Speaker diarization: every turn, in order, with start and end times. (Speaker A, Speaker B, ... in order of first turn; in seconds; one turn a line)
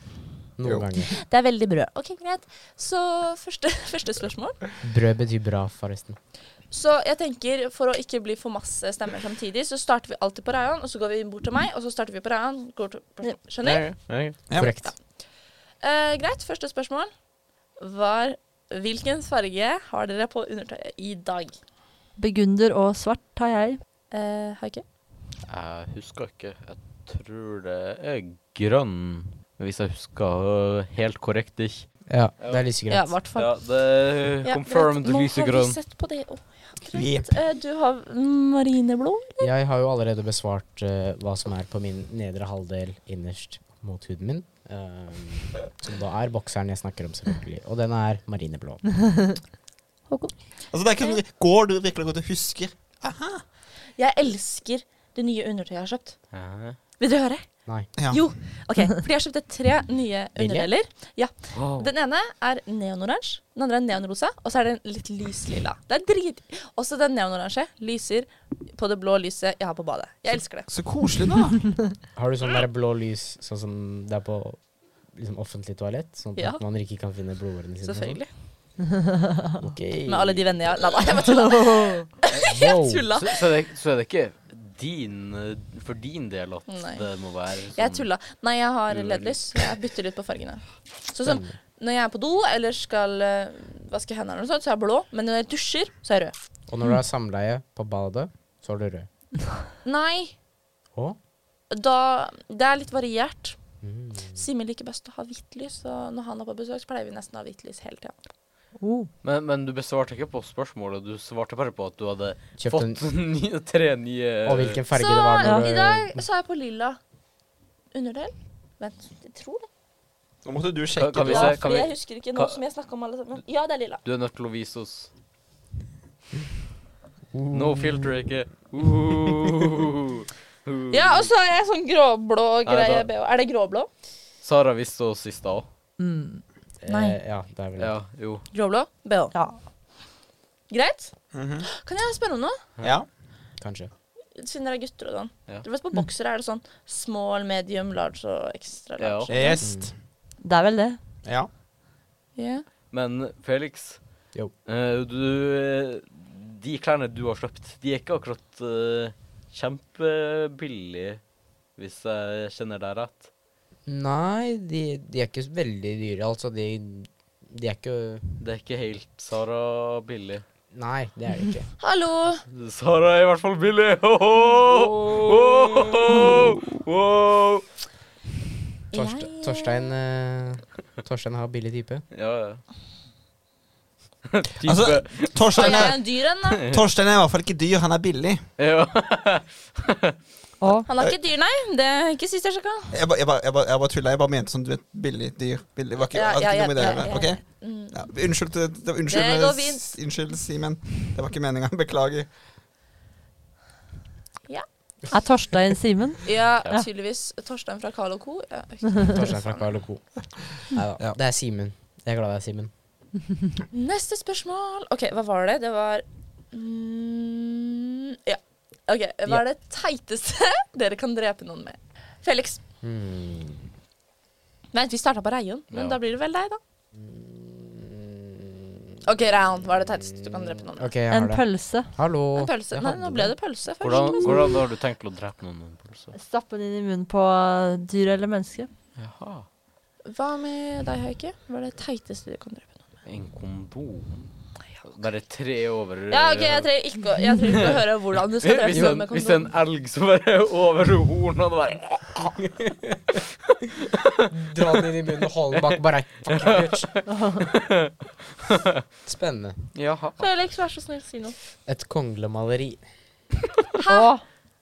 Speaker A: 0.6-1.1
Speaker B: 1.1-4.6
Speaker A: 4.8-6.2
Speaker B: 6.7-13.9
Speaker C: 13.6-14.4
Speaker A: 14.5-14.9
Speaker B: 14.5-15.0
Speaker B: 15.8-17.1
Speaker B: 17.8-21.5
Speaker D: 22.2-23.8
Speaker B: 24.1-24.8
Speaker C: 25.4-31.9
Speaker A: 32.1-33.1
Speaker B: 32.9-33.5
Speaker C: 33.3-35.8
Speaker B: 34.4-39.5
Speaker E: 36.9-37.3
Speaker A: 39.4-48.8
Speaker D: 50.1-50.4
Speaker E: 50.7-53.4
Speaker B: 54.0-56.2
Speaker C: 56.3-56.8
Speaker B: 57.0-70.8
Speaker E: 58.0-58.2
Speaker A: 60.4-60.7
Speaker C: 61.5-61.9
Speaker E: 70.7-71.6
Speaker A: 72.1-78.2
Speaker B: 76.3-76.6
Speaker B: 77.8-78.3
Speaker A: 79.6-80.5
Speaker B: 80.0-83.5
Speaker D: 81.7-82.0
Speaker A: 82.5-83.1
Speaker C: 83.1-88.1
Speaker B: 86.7-87.0
Speaker B: 87.7-96.3
Speaker C: 88.9-89.5
Speaker A: 91.2-91.6
Speaker A: 96.7-99.1
Speaker B: 99.8-100.3
Speaker B: 101.7-103.6
Speaker A: 103.8-104.4
Speaker B: 104.3-108.1
Speaker D: 108.8-109.1
Speaker C: 109.2-114.8
Speaker A: 112.6-113.0
Speaker A: 114.4-116.2
Speaker B: 114.9-117.0
Speaker D: 115.4-115.7
Speaker B: 117.9-119.7
Speaker E: 120.4-121.7
Speaker C: 121.0-122.6
Speaker B: 121.1-124.0
Speaker C: 124.0-125.1
Speaker A: 127.3-128.1
Speaker C: 127.5-131.3
Speaker B: 130.9-133.9
Speaker C: 132.7-133.1
Speaker C: 134.4-135.7
Speaker D: 136.0-136.4
Speaker A: 136.8-137.9
Speaker B: 136.9-137.2
Speaker C: 137.8-138.4
Speaker B: 138.5-139.3
Speaker D: 139.3-139.6
Speaker B: 140.7-141.1
Speaker E: 141.3-141.7
Speaker B: 141.7-142.6
Speaker E: 142.8-143.1
Speaker A: 143.6-143.9
Speaker B: 144.3-149.6
Speaker C: 149.0-149.3
Speaker E: 149.3-149.9
Speaker A: 149.6-149.9
Speaker D: 150.4-151.0
Speaker B: 152.3-152.6
Speaker C: 152.9-154.0
Speaker C: 154.6-161.2
Speaker C: 161.8-163.3
Speaker A: 163.9-168.2
Speaker C: 168.4-170.4
Speaker A: 170.7-171.7
Speaker B: 171.8-172.4
Speaker C: 172.5-177.6
Speaker A: 174.6-176.6
Speaker B: 178.9-179.9
Speaker A: 178.9-182.0
Speaker C: 182.1-182.6
Speaker C: 184.3-186.8
Speaker E: 184.6-188.4
Speaker B: 185.5-186.6
Speaker C: 188.6-190.0
Speaker D: 190.6-190.9
Speaker B: 190.8-192.9
Speaker E: 192.9-202.3
Speaker B: 196.1-198.0
Speaker B: 199.1-199.8
Speaker D: 205.1-206.8
Speaker B: 206.2-209.7
Speaker A: 209.1-210.1
Speaker A: 210.7-212.7
Speaker B: 213.7-222.6
Speaker A: 222.8-223.7
Speaker B: 224.7-226.6
Speaker C: 225.7-226.0
Speaker A: 227.0-228.6
Speaker B: 229.0-230.9
Speaker A: 230.7-233.3
Speaker D: 231.1-231.9
Speaker B: 232.3-234.5
Speaker C: 233.8-236.1
Speaker D: 236.1-238.7
Speaker C: 238.9-239.4
Speaker B: 240.1-242.8
Speaker C: 243.0-244.3
Speaker C: 244.8-246.7
Speaker B: 246.1-249.5
Speaker C: 247.5-247.8
Speaker C: 248.4-252.5
Speaker A: 254.3-256.9
Speaker C: 256.3-257.9
Speaker A: 259.0-259.6
Speaker C: 259.7-260.2
Speaker B: 260.2-261.4
Speaker A: 261.6-262.8
Speaker B: 263.8-264.1
Speaker D: 263.9-264.2